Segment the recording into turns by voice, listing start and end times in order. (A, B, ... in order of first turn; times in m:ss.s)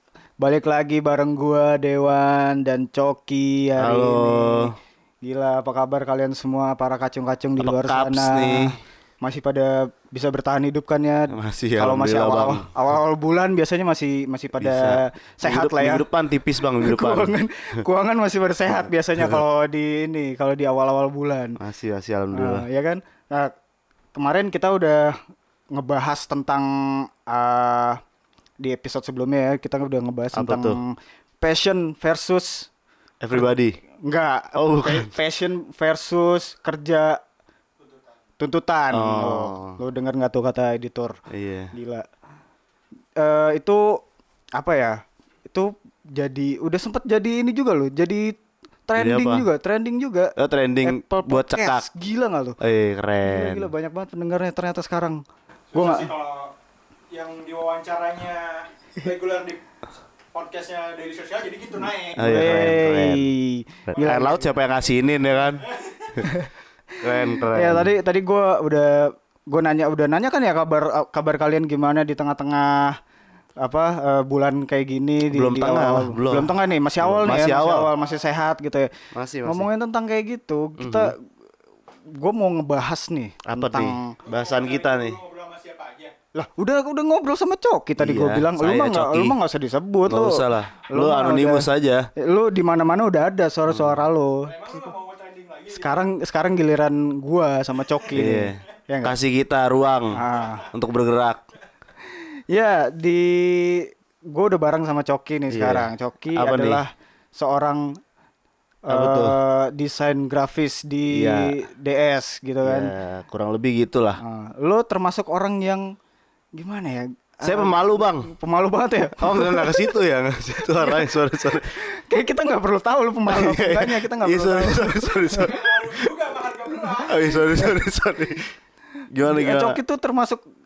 0:00.4-0:16.0 A
0:03.8-0:04.7 B
0:07.6-0:08.8 B
0:11.3-0:12.7 B
0:14.6-0:17.4 B
0:16.8-0:21.6 A
0:21.6-0:22.6 B
0:22.3-0:23.5 A
0:24.2-0:25.2 A
0:25.7-0:28.0 A
0:28.6-0:32.7 A
0:30.3-0:30.8 B
0:33.2-0:33.8 B
0:34.0-0:37.2 A
0:34.6-0:35.1 B
0:37.8-0:38.2 C
0:38.4-0:41.2 A
0:38.9-0:39.8 B
0:41.3-0:41.7 B
0:41.7-0:42.1 A
0:43.2-0:44.0 A
0:44.6-0:48.4 A
0:48.9-0:52.6 A
0:49.0-0:49.5 B
0:50.4-0:51.9 B
0:52.6-0:53.7 B
0:53.2-0:55.2 A
0:55.7-0:56.5 C
0:55.7-0:56.1 A
0:57.1-0:59.6 C
1:00.3-1:02.3 C
1:02.2-1:03.3 B
1:02.2-1:04.5 A
1:03.9-1:05.7 B
1:04.0-1:04.4 C
1:05.6-1:06.2 C
1:06.2-1:06.5 A
1:07.0-1:07.9 B
1:07.1-1:13.0 A
1:13.6-1:18.9 A
1:15.3-1:17.9 B
1:17.9-1:18.2 C
1:19.1-1:19.7 B
1:19.4-1:21.2 A
1:20.8-1:21.1 B
1:22.1-1:24.2 A
1:23.4-1:25.2 B
1:24.2-1:26.2 C
1:26.3-1:34.9 A
1:28.0-1:29.4 B
1:30.1-1:32.1 B
1:33.7-1:34.1 B
1:34.4-1:36.1 C
1:35.7-1:39.2 A
1:38.1-1:41.4 B
1:40.1-1:40.7 A
1:40.3-1:40.7 C
1:42.1-1:48.0 A
1:45.5-1:46.8 B
1:48.9-1:52.9 A
1:48.9-1:49.4 B
1:51.1-1:51.5 B
1:52.6-1:54.2 B
1:54.2-1:56.0 A
1:56.6-2:00.0 A
1:57.5-1:58.3 B
1:59.2-2:01.7 B
2:00.6-2:05.5 A
2:03.3-2:06.1 B
2:05.3-2:07.7 C
2:07.0-2:08.5 B
2:09.1-2:09.8 B
2:09.2-2:10.4 A